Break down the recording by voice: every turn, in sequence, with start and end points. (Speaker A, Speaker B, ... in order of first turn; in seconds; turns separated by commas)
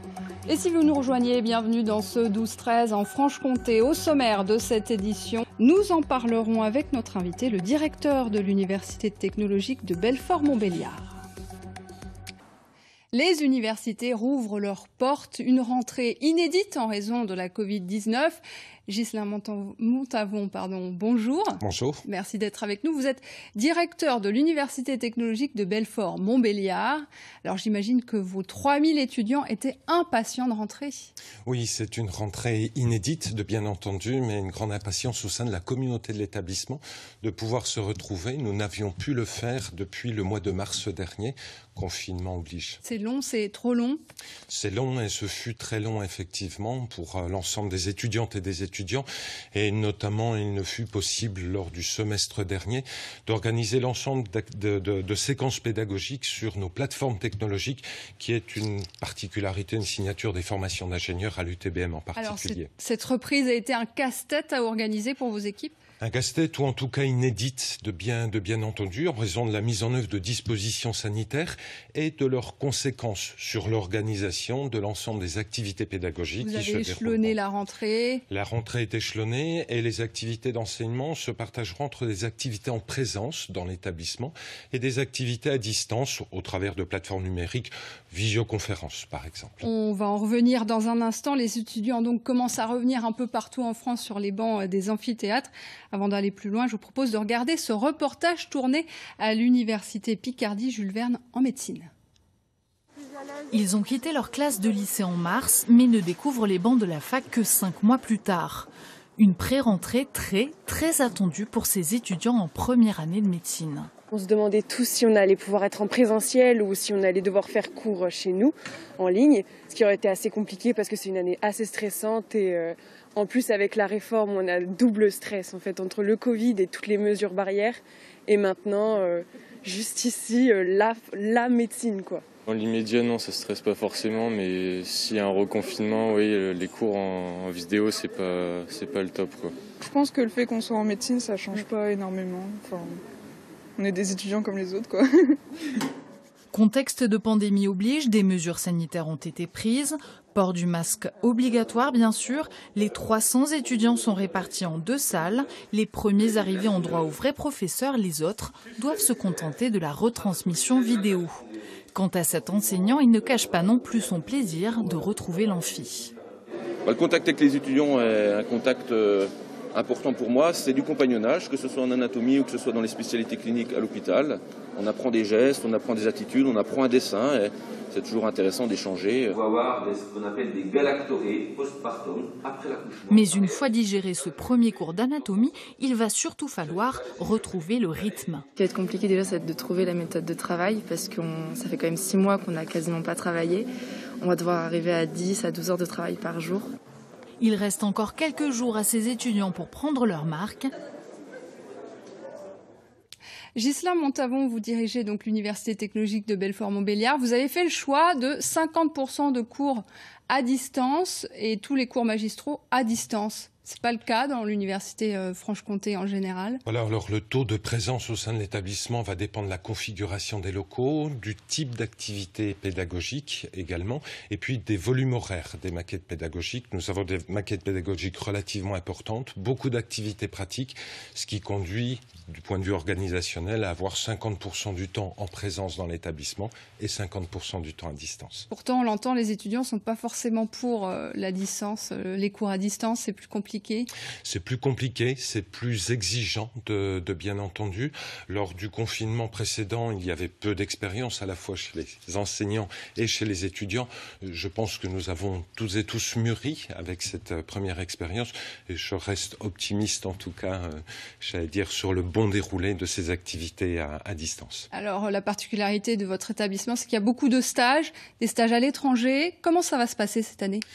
Speaker A: 0.5-11.2, Speaker A: 13.1-31.1, Speaker B: 21.6-22.0, Speaker B: 31.4-42.8, Speaker A: 42.8-44.0, Speaker B: 44.5-62.7, Speaker A: 62.1-65.8, Speaker B: 66.0-77.3, Speaker A: 76.4-78.2, Speaker B: 78.3-89.7, Speaker A: 89.6-101.9, Speaker C: 103.5-113.9, Speaker D: 114.1-132.2, Speaker E: 132.5-139.5, Speaker F: 139.8-143.0, Speaker F: 143.8-145.3, Speaker C: 146.5-161.4, Speaker C: 161.9-166.1, Speaker G: 166.8-179.9, Speaker H: 179.4-182.3, Speaker G: 180.7-183.1, Speaker C: 183.1-188.5, Speaker I: 188.6-193.7, Speaker I: 194.2-196.7, Speaker C: 197.4-200.7, Speaker A: 203.6-216.6, Speaker B: 216.7-238.5, Speaker A: 238.5-243.9, Speaker B: 244.2-264.7, Speaker A: 264.7-270.6